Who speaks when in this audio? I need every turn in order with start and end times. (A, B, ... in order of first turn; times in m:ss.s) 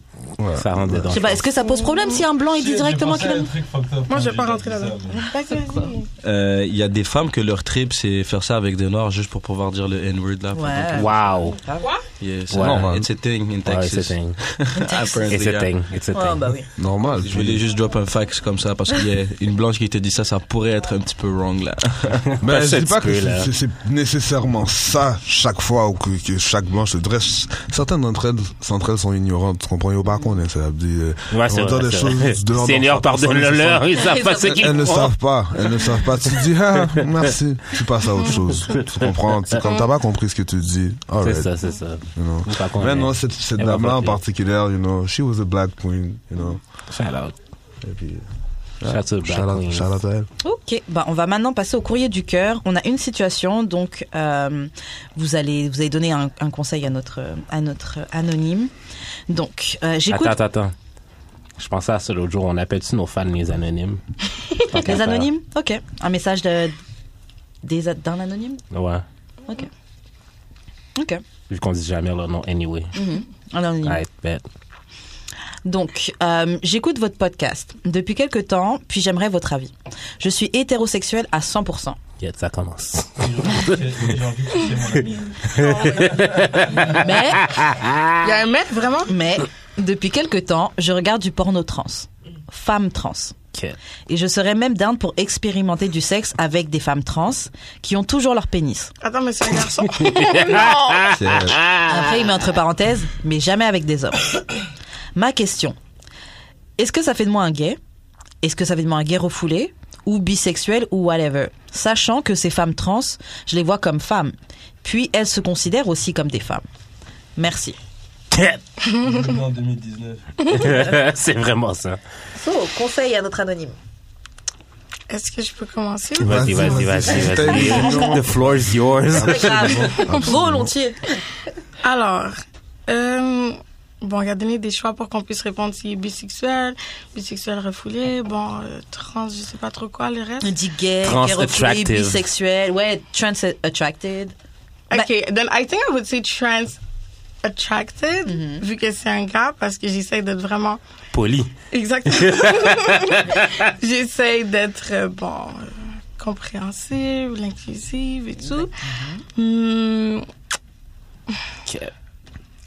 0:00.4-0:01.2 A
0:00.5-0:01.4 B
0:01.1-0:03.5 C
0:01.6-0:02.2 D
0:02.5-0:05.3 E
0:04.1-0:06.1 D
0:06.2-0:11.3 E
0:10.5-0:11.9 C
0:11.0-0:11.6 B
0:12.2-0:15.7 E
0:12.5-0:13.0 B
0:12.6-0:13.0 A
0:13.6-0:14.4 B
0:14.8-0:15.2 C
0:15.3-0:16.5 B
0:16.1-0:16.7 C
0:16.8-0:17.6 A
0:17.1-0:22.3 E
0:22.4-0:41.5 A
0:22.4-0:23.5 B
0:31.3-0:35.9 B
0:34.0-0:34.6 C
0:41.2-0:44.2 B
0:42.2-0:46.6 A
0:46.9-0:47.3 B
0:47.8-0:48.2 A
0:48.8-0:50.3 A
0:48.8-0:49.9 B
0:50.4-0:58.7 C
0:59.3-1:00.4 C
1:00.1-1:00.7 B
1:01.6-1:04.0 B
1:04.6-1:05.3 B
1:04.7-1:06.8 C
1:07.6-1:08.6 C
1:08.7-1:09.0 B
1:11.0-1:11.2 C
1:11.5-1:13.0 B
1:12.9-1:14.0 C
1:13.8-1:14.4 B
1:15.6-1:22.0 C
1:22.2-1:24.0 B
1:23.2-1:27.1 E
1:25.5-1:28.4 B
1:25.6-1:26.0 D
1:27.0-1:27.5 C
1:28.2-1:29.1 D
1:29.1-1:33.3 C
1:34.1-1:38.9 C
1:39.0-1:41.2 D
1:40.1-1:42.2 B
1:41.1-1:41.6 A
1:41.8-1:44.3 C
1:45.1-1:45.8 C
1:46.8-1:47.8 C
1:48.4-1:56.6 C
1:57.4-1:57.8 C
1:58.3-1:58.6 B
1:59.0-2:00.2 E
2:00.4-2:00.8 D
2:00.5-2:02.0 B
2:02.3-2:03.8 C
2:05.1-2:08.0 D
2:06.2-2:10.0 B
2:06.2-2:08.6 A
2:09.1-2:10.7 A
2:09.2-2:11.1 C
2:11.8-2:20.5 D
2:20.4-2:24.3 C
2:21.0-2:22.2 B
2:24.9-2:26.8 D
2:27.4-2:30.8 D
2:28.3-2:28.6 C
2:31.1-2:31.5 B
2:31.7-2:38.7 D
2:32.1-2:33.7 B
2:38.6-2:39.2 C
2:39.4-2:40.2 D
2:41.6-2:41.9 B